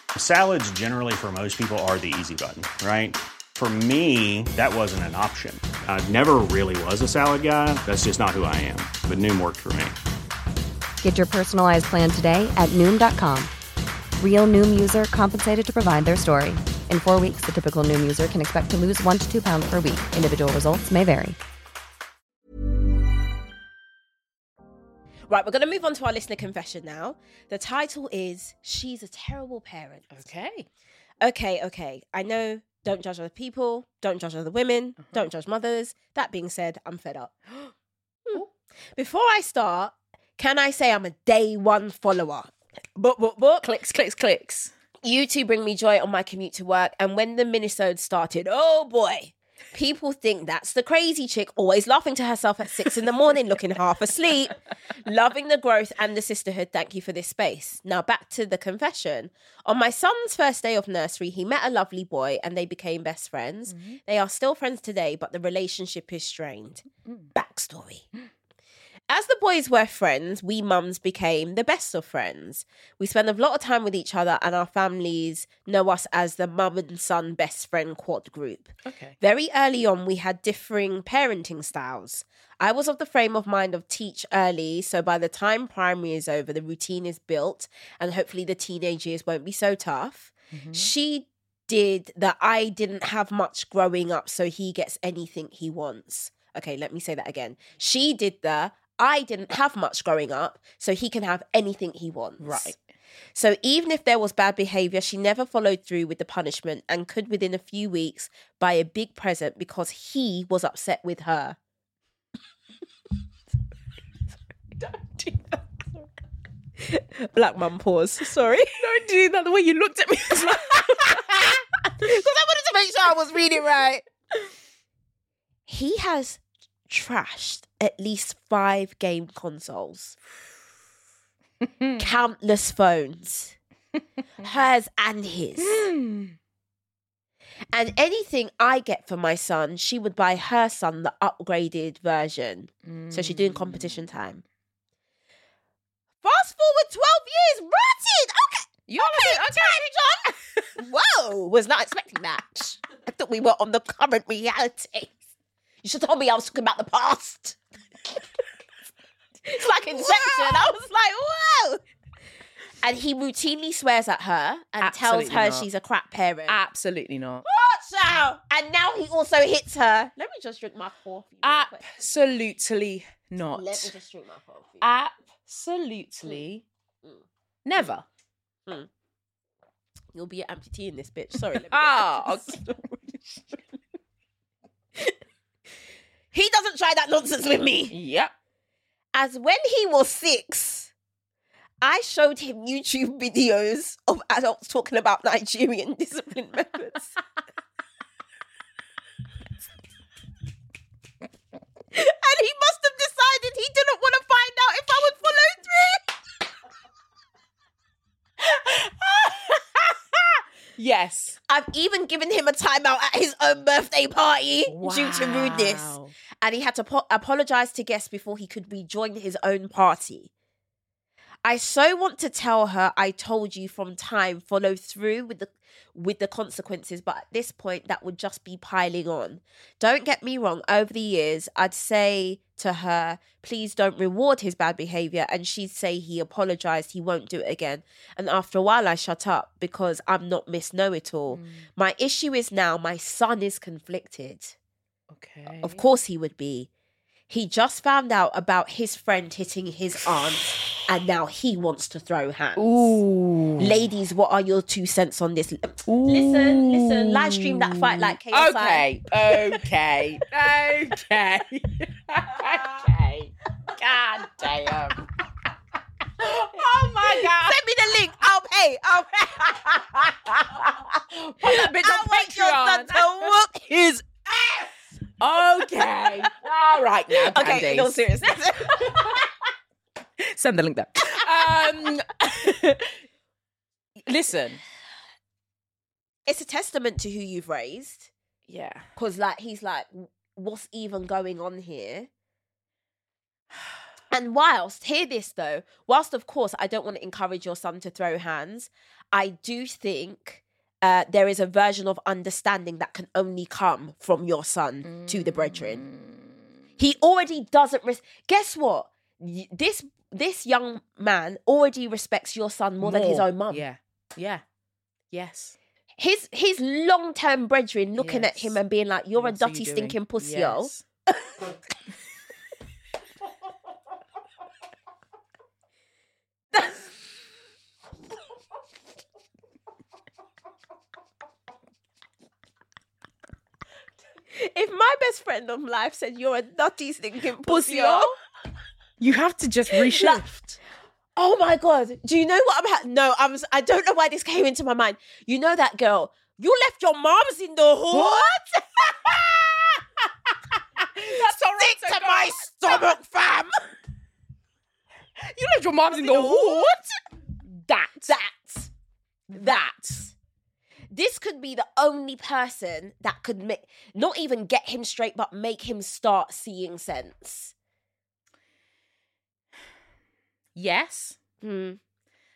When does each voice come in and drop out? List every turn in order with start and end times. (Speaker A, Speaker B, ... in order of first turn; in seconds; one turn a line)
Speaker A: 0.1-9.9
Speaker B: 11.0-13.5
Speaker B: 14.2-21.4
Speaker C: 25.3-30.1
Speaker D: 30.1-30.7
Speaker C: 31.2-37.4
Speaker D: 35.0-35.3
Speaker C: 39.0-43.7
Speaker D: 43.6-44.7
Speaker C: 45.0-68.0
Speaker D: 63.7-64.0
Speaker C: 69.1-102.7
Speaker D: 78.8-79.2
Speaker D: 90.5-90.9
Speaker D: 102.4-102.8
Speaker C: 103.3-111.6
Speaker D: 114.8-115.6
Speaker C: 116.8-118.8
Speaker D: 118.4-121.6
Speaker C: 120.5-124.0
Speaker C: 125.7-130.2
Speaker D: 131.6-132.0
Speaker C: 132.0-133.6
Speaker C: 134.4-135.9
Speaker D: 135.6-136.4
Speaker C: 137.7-144.4
Speaker D: 142.8-144.0
Speaker C: 146.2-155.2
Speaker D: 148.9-150.6
Speaker C: 155.8-157.6
Speaker C: 159.4-161.8
Speaker D: 159.9-160.8
Speaker C: 162.8-166.6
Speaker D: 164.8-165.7
Speaker D: 166.5-167.4
Speaker C: 167.4-171.9
Speaker D: 171.4-173.9
Speaker C: 173.5-174.8
Speaker D: 174.8-176.6
Speaker D: 177.6-178.1
Speaker C: 180.1-183.0
Speaker D: 181.7-182.8
Speaker C: 186.3-187.9
Speaker D: 187.9-188.3
Speaker C: 189.1-190.9
Speaker C: 191.8-197.2
Speaker C: 201.9-206.0
Speaker D: 208.4-211.4
Speaker C: 211.5-220.3
Speaker D: 214.7-216.1
Speaker C: 221.4-244.5
Speaker D: 241.3-241.7
Speaker D: 245.1-245.8
Speaker C: 245.6-246.7
Speaker C: 247.3-253.0
Speaker D: 252.6-253.8
Speaker C: 253.6-259.6
Speaker D: 255.9-265.1
Speaker D: 266.2-267.6
Speaker C: 267.0-270.8
Speaker D: 269.6-273.3
Speaker C: 271.4-274.7
Speaker D: 275.2-279.2
Speaker C: 277.1-279.2
Speaker D: 280.2-283.0
Speaker D: 284.0-284.6
Speaker C: 286.2-288.1
Speaker D: 288.5-288.9
Speaker C: 288.9-292.1
Speaker C: 294.1-305.8
Speaker D: 304.9-306.2
Speaker C: 306.8-313.6
Speaker D: 312.8-314.4
Speaker D: 315.1-315.6
Speaker C: 316.0-320.7
Speaker D: 318.0-318.6
Speaker D: 319.1-320.8
Speaker C: 326.5-326.8
Speaker C: 334.3-338.1
Speaker D: 337.4-338.1
Speaker D: 339.0-340.6
Speaker C: 339.7-340.2
Speaker C: 341.1-349.8
Speaker D: 347.9-348.5
Speaker D: 350.8-352.9
Speaker C: 350.8-353.6
Speaker D: 355.1-356.8
Speaker C: 355.9-356.9
Speaker D: 357.5-358.1
Speaker C: 358.1-358.7
Speaker C: 359.3-360.1
Speaker C: 360.9-367.5
Speaker D: 370.5-371.2
Speaker C: 371.4-371.8